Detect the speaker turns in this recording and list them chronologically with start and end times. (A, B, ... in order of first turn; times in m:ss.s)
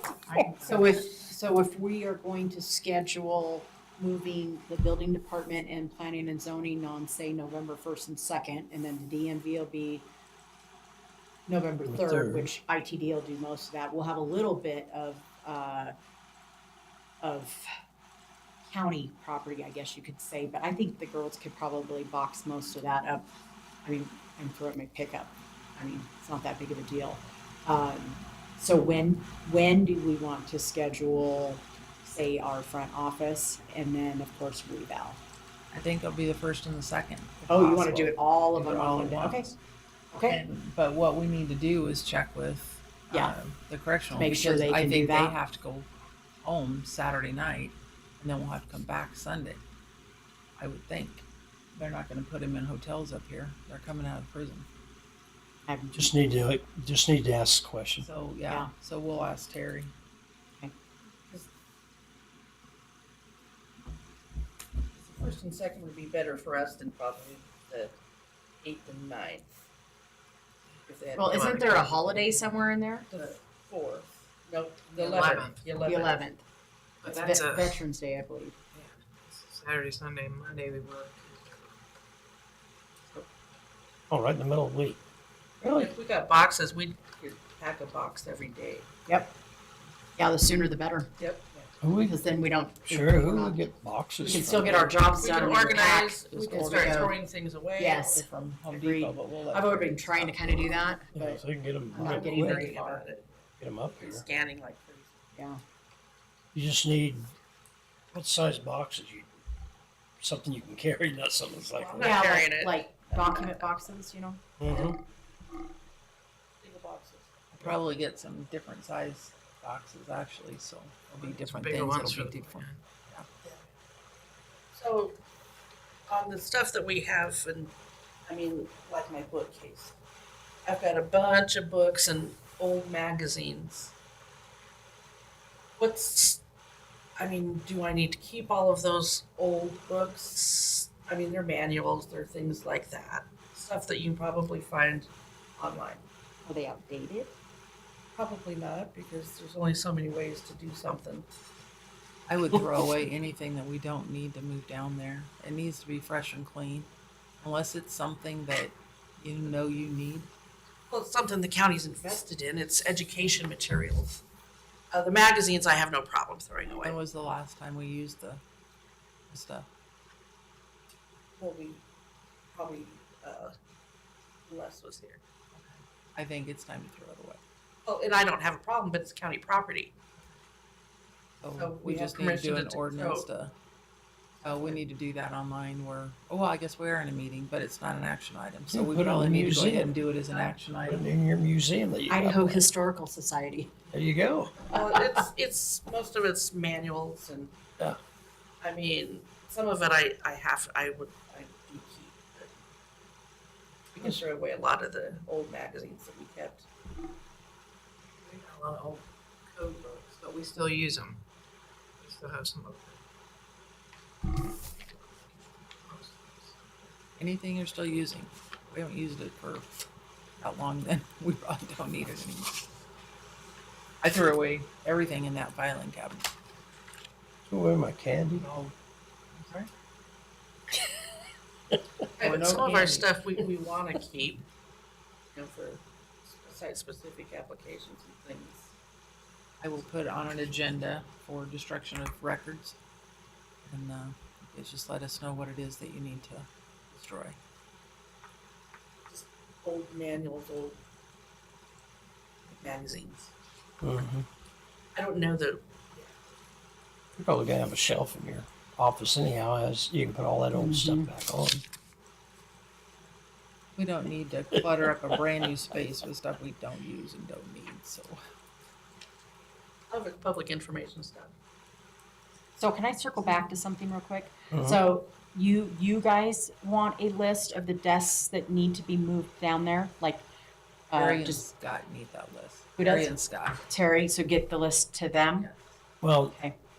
0:00.3-0:00.8 A
0:00.6-0:10.0 B
0:11.5-0:15.9 B
0:11.9-0:12.5 C
0:17.2-0:17.6 B
0:18.7-0:23.2 B
0:23.8-0:35.2 B
0:35.7-0:39.5 D
0:37.5-0:39.5 B
0:40.1-0:40.4 B
0:40.2-0:45.9 D
0:44.1-0:45.4 B
0:46.4-0:49.6 D
0:50.6-0:51.2 D
0:51.8-0:54.7 D
0:55.6-0:56.1 B
0:55.9-0:58.1 C
0:58.0-0:59.9 D
1:05.0-1:07.9 E
1:08.6-1:09.5 E
1:10.9-1:12.2 E
1:11.1-1:13.1 B
1:13.1-1:16.2 E
1:14.9-1:15.7 A
1:15.8-1:16.4 B
1:17.0-1:17.8 A
1:17.0-1:18.5 B
1:18.7-1:21.8 A
1:24.1-1:25.0 C
1:25.6-1:25.9 C
1:25.7-1:28.9 E
1:29.1-1:29.3 B
1:30.2-1:31.1 B
1:31.2-1:31.5 E
1:31.8-1:32.2 C
1:32.0-1:37.2 B
1:32.9-1:35.0 C
1:35.1-1:38.2 E
1:37.8-1:43.0 B
1:38.0-1:40.7 D
1:41.1-1:42.8 C
1:41.9-1:43.3 E
1:43.6-1:44.2 C
1:43.8-1:45.2 E
1:45.4-1:45.6 B
1:46.5-1:47.3 C
1:48.1-1:49.3 C
1:50.2-1:52.3 C
1:51.8-1:53.7 E
1:52.0-1:54.4 B
1:54.6-1:55.0 C
1:54.7-1:54.9 E
1:56.6-1:57.7 E
1:57.6-2:03.2 D
2:01.2-2:01.9 E
2:01.4-2:02.8 A
2:04.7-2:05.1 E
2:06.1-2:07.7 E
2:08.2-2:10.0 E
2:10.6-2:13.9 E
2:15.8-2:16.4 E
2:17.2-2:26.0 E
2:26.4-2:27.3 B
2:28.1-2:31.2 E
2:32.3-2:36.9 D
2:37.4-2:40.3 D
2:40.9-2:44.2 E
2:44.9-2:47.0 E
2:46.8-2:48.4 D
2:49.3-2:49.7 D
2:51.4-2:51.8 E
2:52.5-2:53.5 E
2:54.5-2:55.2 E
2:56.2-2:57.4 D
2:57.8-2:59.9 E
3:01.4-3:03.5 D
3:01.5-3:03.3 E
3:04.4-3:04.8 E
3:04.4-3:11.0 D
3:08.7-3:09.9 C
3:10.8-3:12.6 C
3:12.1-3:13.7 B
3:13.9-3:14.6 C
3:14.7-3:17.5 E
3:18.6-3:22.6 E
3:23.9-3:26.6 E
3:28.2-3:29.0 A
3:29.5-3:31.2 A
3:32.0-3:33.0 A
3:35.8-3:36.9 A
3:37.2-3:39.7 D
3:40.4-3:42.5 D
3:44.0-3:46.3 D
3:47.5-3:48.4 C
3:48.4-3:48.7 D
3:49.4-3:49.7 D
3:52.2-3:53.1 D
3:52.2-3:54.4 E
3:55.3-3:58.7 E
3:59.6-4:02.8 D
4:03.7-4:07.4 D
4:09.1-4:10.8 E
4:12.5-4:13.3 E
4:13.8-4:14.2 C
4:14.9-4:16.1 E
4:17.2-4:21.6 C
4:20.5-4:21.1 B
4:23.8-4:28.2 D
4:29.9-4:31.3 E
4:32.6-4:40.2 B
4:34.5-4:34.8 C
4:40.9-4:41.4 B
4:40.9-4:43.6 D
4:42.8-4:43.1 B
4:43.7-4:45.5 B
4:46.0-4:46.4 C
4:46.2-4:46.5 B